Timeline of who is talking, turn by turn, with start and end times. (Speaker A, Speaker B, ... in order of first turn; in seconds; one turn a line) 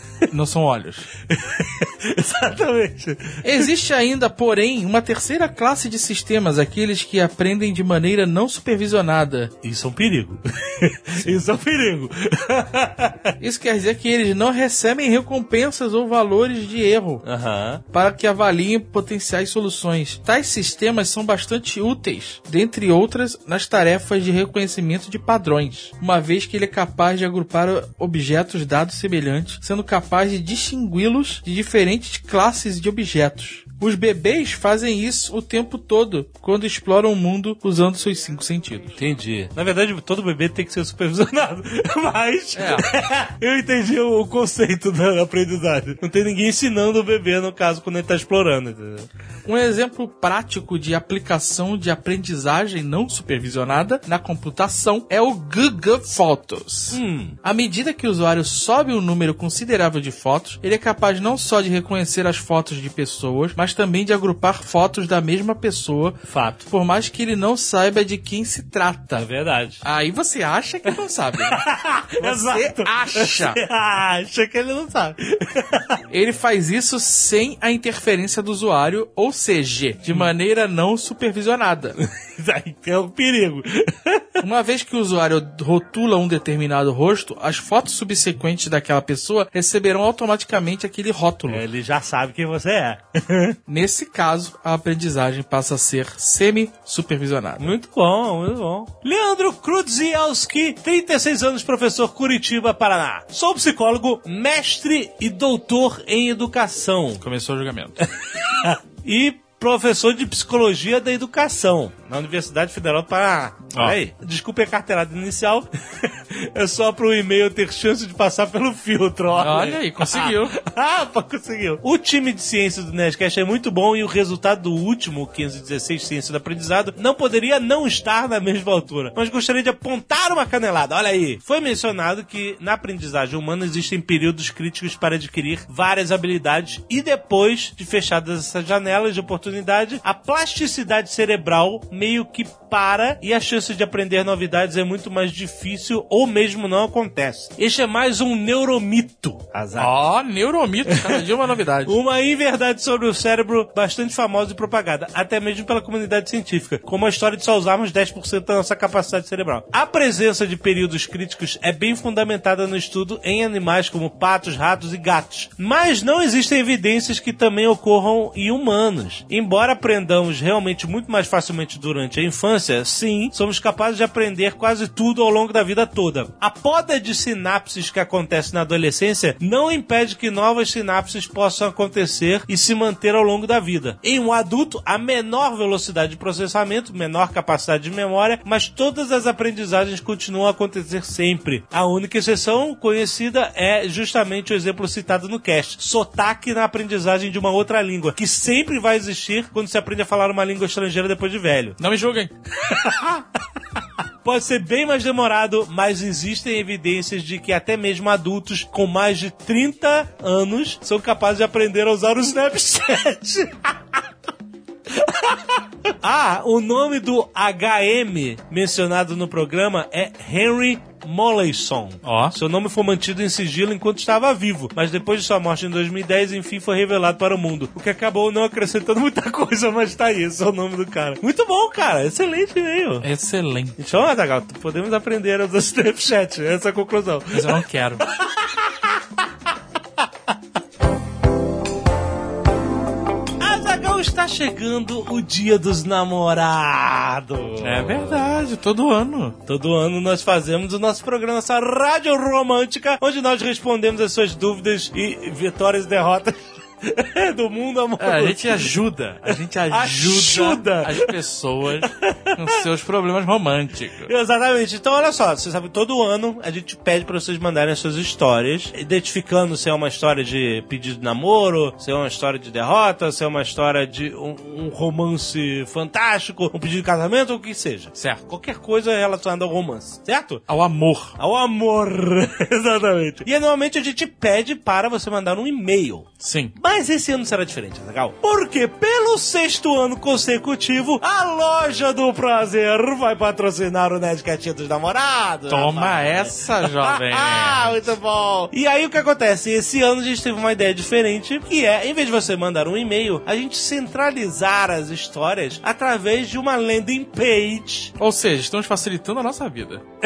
Speaker A: 0.3-1.1
Speaker B: 1.3-3.7
Speaker A: 3.4-9.5
Speaker B: 9.6-13.3
Speaker A: 13.4-17.2
Speaker B: 17.2-17.8
Speaker A: 17.9-38.9
Speaker B: 39.0-49.1
Speaker A: 42.6-42.9
Speaker A: 49.5-69.3
Speaker B: 56.9-57.4
Speaker B: 66.3-66.6
Speaker B: 69.2-69.8
Speaker A: 69.8-71.7
Speaker B: 71.5-76.0
Speaker A: 72.2-73.6
Speaker A: 76.1-82.0
Speaker B: 82.0-84.4
Speaker A: 84.4-91.6
Speaker B: 91.5-93.6
Speaker A: 93.7-97.8
Speaker B: 97.6-107.2
Speaker A: 107.2-108.1
Speaker B: 108.4-150.0
Speaker A: 119.3-120.6
Speaker A: 149.8-152.0
Speaker B: 150.9-151.2
Speaker B: 151.8-201.8
Speaker A: 201.8-202.3
Speaker B: 202.7-203.3
Speaker B: 204.2-214.0
Speaker B: 214.9-233.1
Speaker A: 222.0-222.3
Speaker A: 233.0-233.8
Speaker B: 233.8-239.0
Speaker A: 237.3-238.1
Speaker B: 243.4-248.3
Speaker A: 247.6-249.4
Speaker B: 249.5-261.2
Speaker A: 258.0-264.1
Speaker B: 261.8-262.6
Speaker B: 264.0-280.4
Speaker A: 278.0-278.2
Speaker A: 280.5-281.1
Speaker B: 281.2-307.9
Speaker A: 286.2-286.5
Speaker A: 295.5-297.9
Speaker A: 308.0-309.8